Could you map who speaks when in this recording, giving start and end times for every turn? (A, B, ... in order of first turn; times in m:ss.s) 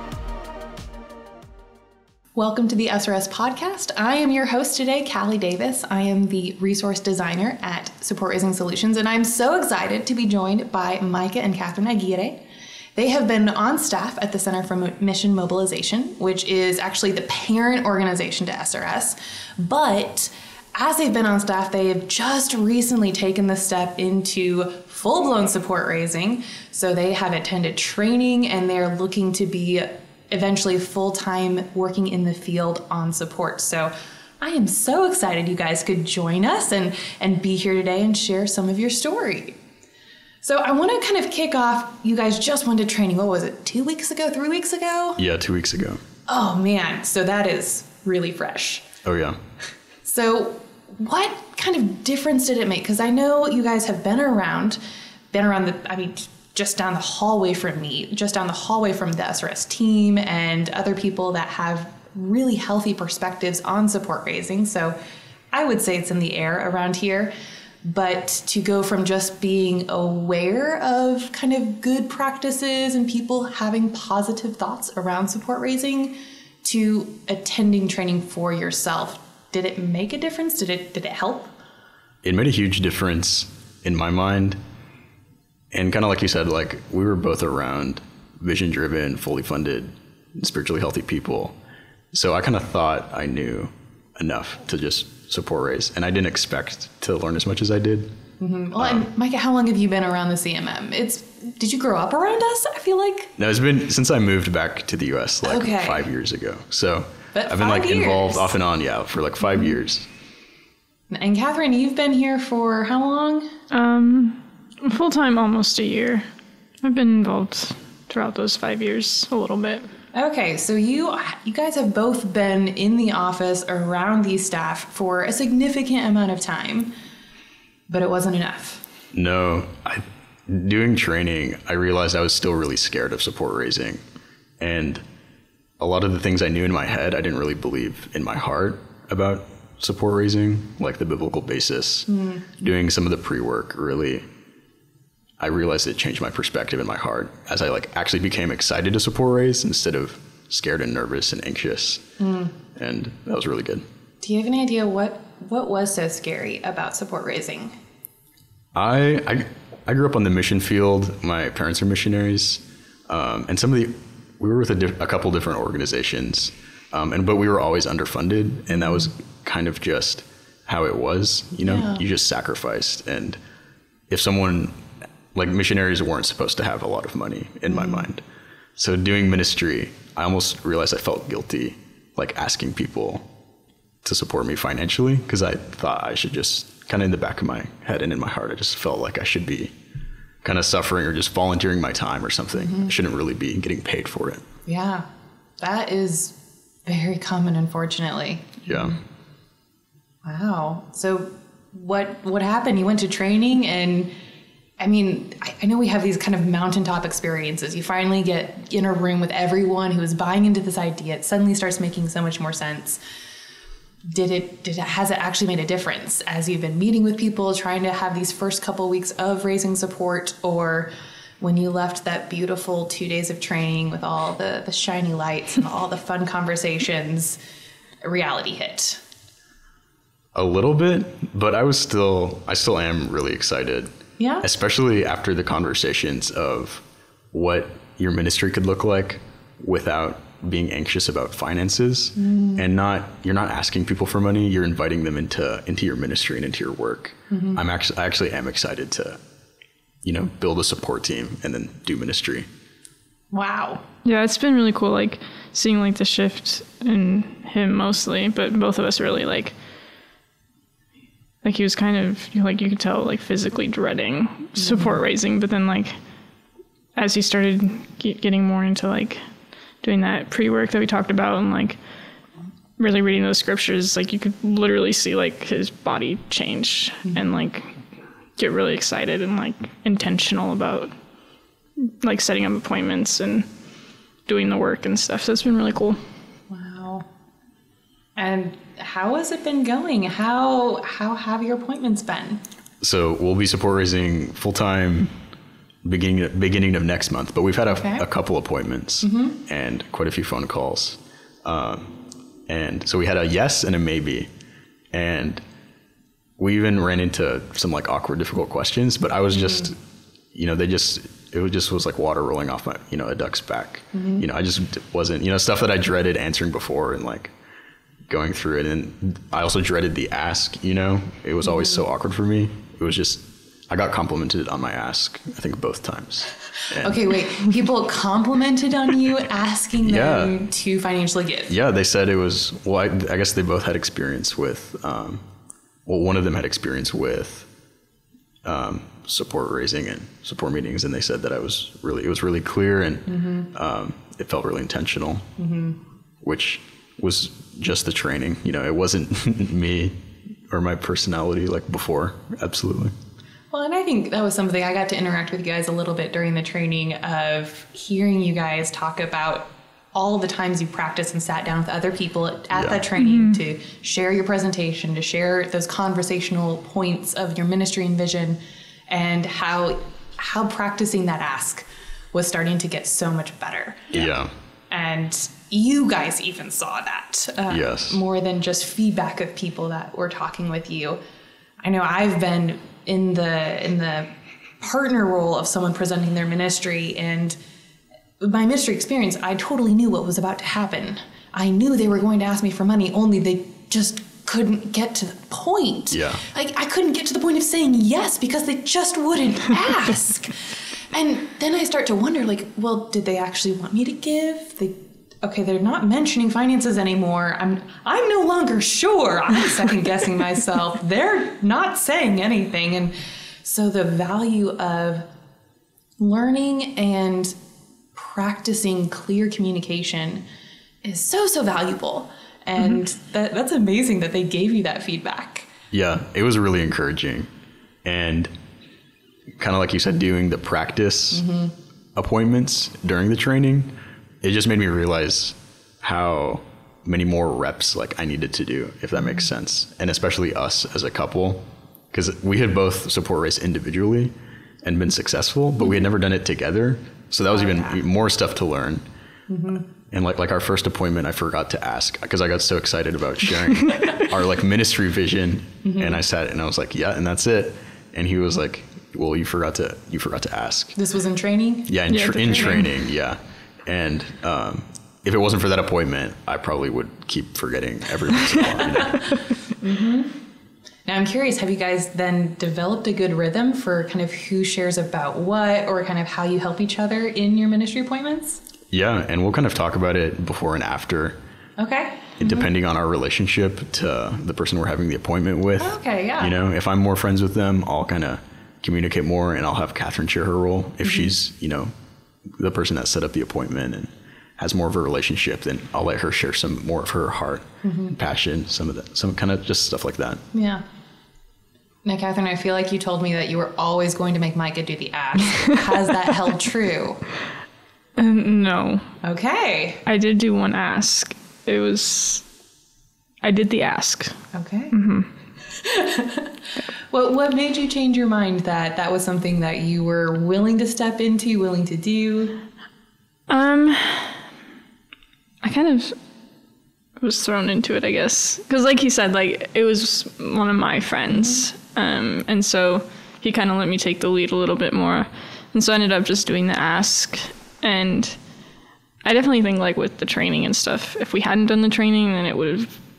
0:02.4-0:12.4 A
0:13.0-0:39.6 A
0:40.4-0:45.2 A
0:45.2-0:46.0 B
0:46.3-0:48.8 A
0:49.0-0:49.4 B
0:50.0-0:54.8 A
0:55.3-1:05.0 A
1:05.5-1:07.3 A
1:07.8-1:21.5 A
1:22.2-1:24.6 B
1:25.7-1:31.6 B
1:32.1-1:38.1 B
1:38.4-1:43.3 A
1:38.8-1:39.1 B
1:43.4-1:50.1 B
1:45.4-1:46.1 A
1:47.3-1:48.6 A
1:51.1-1:53.5 A
1:53.7-1:56.3 C
1:56.8-1:59.9 C
2:00.1-2:06.9 A
2:07.9-2:08.8 A
2:09.1-2:14.0 B
2:14.6-2:15.0 B
2:15.8-2:24.2 B
2:22.1-2:22.4 A
2:25.4-2:32.0 B
2:32.2-2:32.5 A
2:32.7-2:33.8 B
2:34.2-2:37.7 A
2:38.7-2:53.4 B
2:48.7-2:49.1 A
2:51.6-2:52.0 A
2:54.1-2:54.8 B
2:55.3-2:58.2 B
2:57.7-2:58.1 A
2:58.8-3:03.3 B
3:04.0-3:09.7 B
3:10.4-3:14.4 B
3:12.5-3:12.9 A
3:14.6-3:15.0 A
3:15.6-3:19.0 A
3:18.6-3:19.0 B
3:20.2-3:24.1 A
3:24.8-3:33.0 A
3:34.0-3:47.4 A
3:48.0-3:49.0 A
3:50.3-3:53.9 B
3:54.2-3:54.4 A
3:54.4-4:09.2 B
4:02.2-4:02.6 A
4:07.3-4:07.6 A
4:10.0-4:12.5 B
4:13.3-4:13.8 A
4:14.0-4:19.6 C
4:21.4-4:26.0 C
4:24.6-4:24.9 A
4:27.0-4:29.2 C
4:29.8-4:31.8 C
4:32.8-4:37.8 C
4:38.4-4:40.9 C
4:41.8-4:43.5 C
4:44.2-4:46.0 C
4:46.5-4:47.0 A
4:48.2-4:52.4 A
4:52.8-4:55.1 B
4:55.8-5:02.0 B
4:57.8-4:58.0 A
4:59.0-4:59.4 A
5:02.5-5:04.3 B
5:04.9-5:05.4 B
5:06.4-5:09.8 B
5:09.3-5:09.7 A
5:10.3-5:17.3 B
5:13.9-5:14.2 A
5:18.1-5:27.0 B
5:21.4-5:21.8 A
5:26.8-5:31.5 A
5:29.8-5:30.4 B
5:31.5-5:35.2 B
5:35.8-5:37.5 B
5:38.4-5:45.2 B
5:43.1-5:43.5 A
5:45.4-5:45.8 A
5:46.2-5:50.0 B
5:50.5-5:52.9 B
5:53.5-6:08.4 A
6:02.5-6:02.8 B
6:03.0-6:03.4 C
6:08.9-6:14.1 A
6:13.9-6:14.3 B
6:14.7-6:21.0 A
6:17.5-6:18.0 B
6:21.6-6:24.1 A
6:24.6-6:27.4 A
6:28.2-6:40.4 A
6:35.9-6:36.2 B
6:40.9-6:55.1 A
6:56.0-6:57.3 A
6:57.9-7:00.2 A
7:00.8-7:05.5 A
7:05.7-7:07.3 B
7:07.8-7:08.3 B
7:09.4-7:11.2 B
7:11.1-7:11.5 A
7:12.0-7:28.8 B
7:19.0-7:19.3 A
7:27.3-7:27.8 A
7:29.3-7:29.6 A
7:29.8-7:40.8 B
7:35.6-7:36.0 A
7:40.7-7:41.7 A
7:41.7-7:49.1 B
7:41.9-7:42.8 C
7:49.6-7:50.1 A
7:50.8-7:58.4 A
7:58.7-8:01.2 B
8:01.6-8:02.5 A
8:02.2-8:11.7 B
8:05.6-8:06.3 A
8:10.8-8:11.1 A
8:12.4-8:20.2 B
8:17.6-8:18.0 A
8:20.3-8:20.6 A
8:21.8-8:27.0 A
8:28.0-8:28.9 C
8:29.0-8:29.8 A
8:29.8-8:32.2 C
8:33.2-8:34.2 C
8:34.3-8:34.7 A
8:34.7-8:35.1 C
8:35.5-8:42.4 A
8:43.3-8:44.2 C
8:45.4-8:46.0 C
8:47.0-8:58.2 C
8:51.1-8:51.4 A
8:59.0-9:02.8 C